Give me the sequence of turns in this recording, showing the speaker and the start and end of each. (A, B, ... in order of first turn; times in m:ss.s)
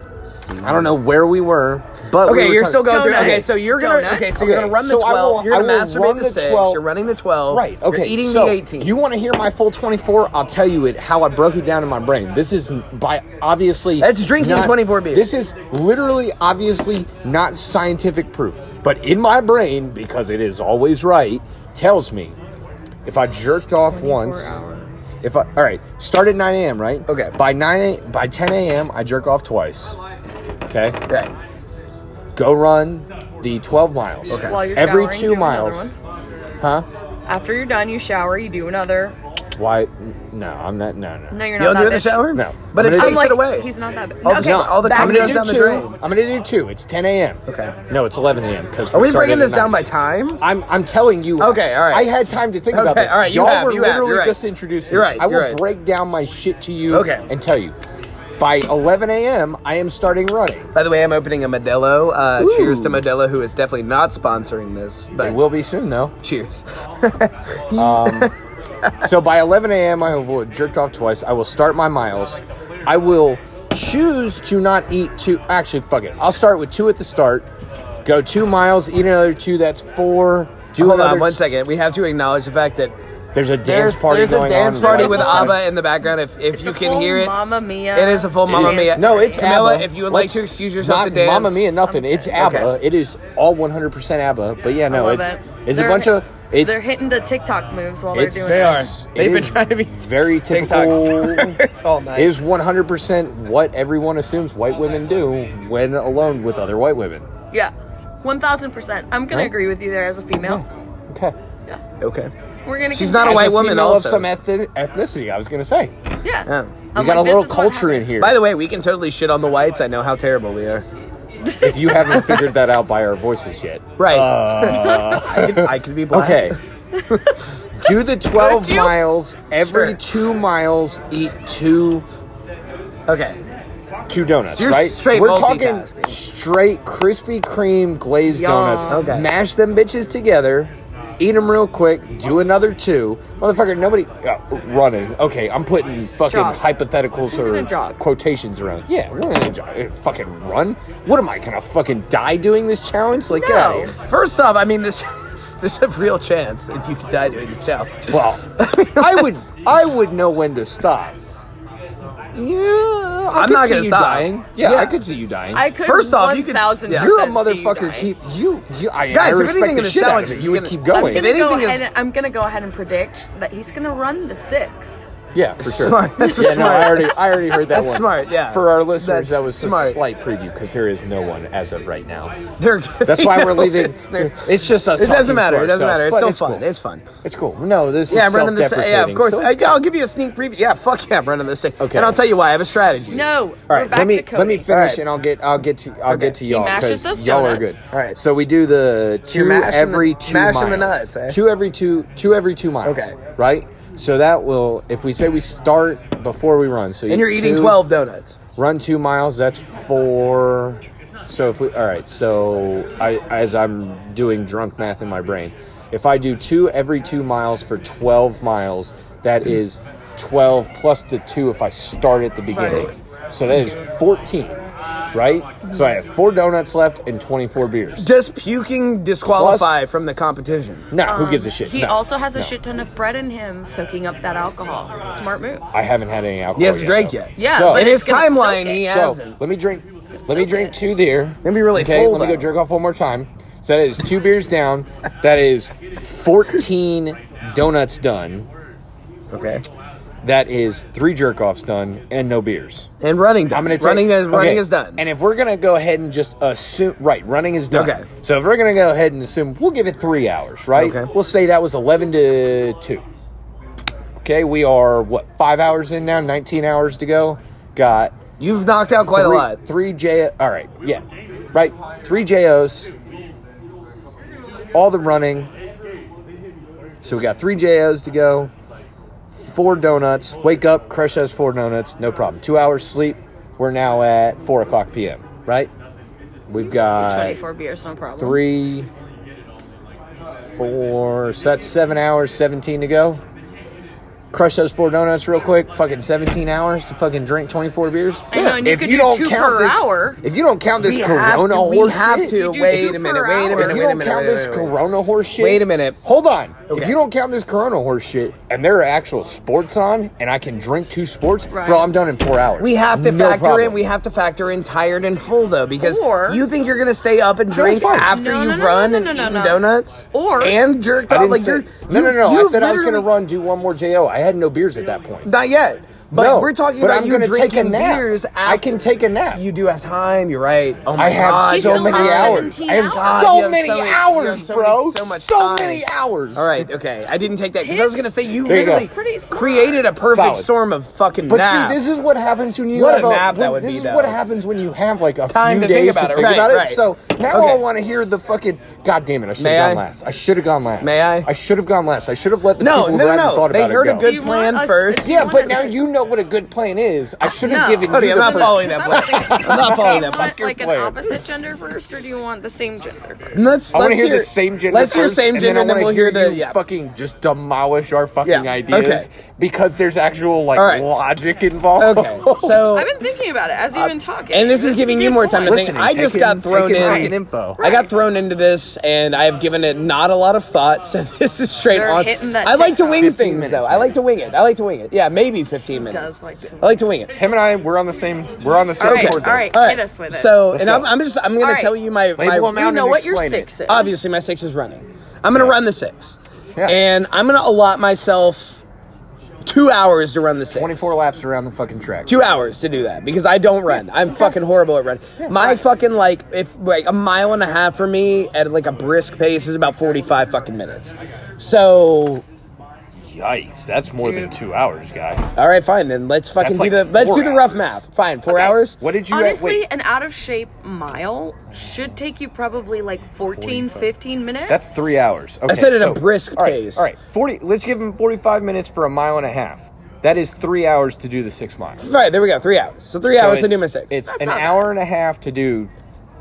0:00.2-0:01.0 A
0:00.6-0:03.5 B
0:02.2-0:08.9 A
0:02.7-0:04.4 C
0:04.3-0:06.8 B
0:07.5-0:22.4 B
0:14.0-0:15.3 A
0:23.0-0:24.6 B
0:23.8-0:25.1 C
0:25.2-0:30.0 B
0:27.1-0:27.3 A
0:30.7-0:31.0 B
0:31.1-0:31.3 A
0:32.4-0:35.9 B
0:34.3-0:34.6 A
0:34.4-0:35.9 C
0:37.3-0:39.2 C
0:39.6-0:41.4 B
0:41.3-0:45.6 C
0:41.6-0:43.7 A
0:42.3-0:43.4 B
0:44.2-0:45.9 A
0:44.3-0:49.8 B
0:47.5-0:47.7 A
0:48.9-0:50.4 A
0:50.4-0:57.7 B
0:51.4-0:52.1 A
0:52.7-0:54.4 A
0:54.9-0:55.6 A
0:56.9-0:57.2 A
0:58.4-1:00.7 B
1:00.7-1:05.4 A
1:02.4-1:03.0 B
1:05.2-1:06.1 B
1:06.2-1:08.3 A
1:07.7-1:08.3 B
1:09.0-1:17.5 B
1:18.0-1:21.4 B
1:20.8-1:22.9 A
1:23.3-1:25.6 B
1:23.6-1:27.3 A
1:24.8-1:25.7 C
1:26.5-1:29.4 C
1:27.9-1:31.7 A
1:28.5-1:36.8 B
1:32.3-1:32.7 A
1:34.9-1:38.8 C
1:38.1-1:41.6 B
1:38.4-1:42.4 A
1:42.2-1:47.3 B
1:48.2-1:50.6 C
1:50.4-1:51.4 B
1:52.0-1:52.3 A
1:52.6-1:53.6 C
1:52.9-1:54.3 A
1:53.1-1:55.9 B
1:56.2-1:58.2 C
1:56.5-1:56.7 A
1:56.9-1:58.4 B
1:58.2-2:00.8 A
2:01.6-2:06.6 B
2:02.0-2:02.4 A
2:04.0-2:06.6 A
2:07.8-2:12.0 B
2:08.3-2:09.0 C
2:09.6-2:10.0 A
2:13.1-2:13.4 A
2:14.1-2:33.9 B
2:14.6-2:16.2 A
2:18.2-2:19.1 C
2:18.9-2:19.3 A
2:26.3-2:26.6 C
2:27.3-2:28.0 C
2:33.3-2:33.9 C
2:34.0-2:39.4 A
2:38.1-2:41.2 B
2:42.3-2:45.6 B
2:43.3-2:45.0 A
2:45.5-2:48.1 C
2:45.8-2:47.1 A
2:46.9-2:51.3 B
2:49.1-2:51.8 A
2:50.9-2:55.0 C
2:55.3-3:02.3 B
2:55.6-3:00.0 A
3:02.6-3:07.0 A
3:03.0-3:06.6 B
3:07.2-3:09.8 B
3:08.1-3:13.9 A
3:11.8-3:13.1 B
3:13.1-3:14.7 C
3:13.7-3:27.8 B
3:14.7-3:15.0 A
3:16.1-3:16.4 A
3:16.4-3:17.8 C
3:17.9-3:18.2 A
3:19.3-3:21.4 A
3:22.8-3:23.1 A
3:27.1-3:28.4 A
3:28.6-3:44.6 B
3:42.5-3:42.9 C
3:45.1-3:48.1 B
3:48.0-3:50.9 A
3:49.3-3:49.7 B
3:50.9-3:52.5 B
3:51.0-3:55.7 C
3:55.7-3:58.0 B
3:56.6-3:59.4 A
3:57.4-3:59.0 C
3:58.7-4:08.5 B
4:00.2-4:00.7 C
4:01.4-4:02.5 A
4:09.3-4:09.6 A
4:10.2-4:12.9 B
4:13.0-4:15.0 A
4:13.5-4:23.0 B
4:17.7-4:18.1 A
4:20.8-4:21.1 A
4:24.2-4:28.2 B
4:28.4-4:29.6 A
4:29.1-4:32.9 B
4:34.7-4:35.5 B
4:37.0-4:38.5 B
4:39.3-4:45.7 B
4:46.5-4:47.4 B
4:46.6-4:48.4 C
4:48.2-4:48.9 B
4:50.4-4:53.2 B
4:54.3-5:13.8 B
4:58.3-5:00.2 C
5:00.8-5:04.7 A
5:02.2-5:03.8 C
5:05.4-5:06.0 A
5:06.7-5:07.0 A
5:11.5-5:11.9 C
5:12.6-5:23.1 A
5:15.8-5:16.4 C
5:17.5-5:18.1 B
5:18.1-5:20.6 C
5:21.1-5:25.3 B
5:25.2-5:28.8 A
5:26.1-5:29.4 B
5:29.3-5:41.8 A
5:31.0-5:36.7 B
5:31.5-5:33.3 C
5:37.6-5:39.8 C
5:38.4-5:38.9 B
5:40.0-5:40.5 B
5:41.3-5:54.1 B
5:42.7-5:44.2 A
5:45.3-5:47.6 A
5:49.4-5:49.8 A
5:50.8-5:51.3 A
5:52.6-5:55.1 A
5:54.0-5:55.8 C
5:55.0-6:01.0 B
5:57.3-6:03.4 C
5:57.9-6:00.3 A
6:03.3-6:06.6 A
6:03.7-6:12.8 B
6:08.2-6:09.1 A
6:10.6-6:10.8 A
6:11.8-6:12.9 A
6:12.6-6:15.7 C
6:13.7-6:26.1 A
6:15.4-6:17.6 B
6:16.8-6:17.9 C
6:21.7-6:23.1 C
6:23.0-6:24.0 B
6:25.7-6:26.9 C
6:26.6-6:27.1 A
6:27.1-6:29.5 B
6:28.8-6:30.6 C
6:28.8-6:32.7 A
6:30.5-6:30.9 B
6:31.4-6:31.7 C
6:32.2-6:33.5 B
6:32.5-6:34.0 C
6:33.6-6:38.6 A
6:39.4-6:40.8 A
6:40.5-6:42.2 B
6:42.1-6:52.2 A
6:53.0-6:55.3 B
6:54.0-6:54.3 C
6:55.4-6:58.8 A
6:56.4-6:57.8 B
6:58.3-6:58.6 C
6:58.8-6:59.6 B
6:59.1-7:04.6 C
7:03.2-7:03.9 B
7:04.5-7:11.9 B
7:05.5-7:06.9 A
7:11.8-7:13.9 A
7:13.1-7:15.7 B
7:14.1-7:14.6 C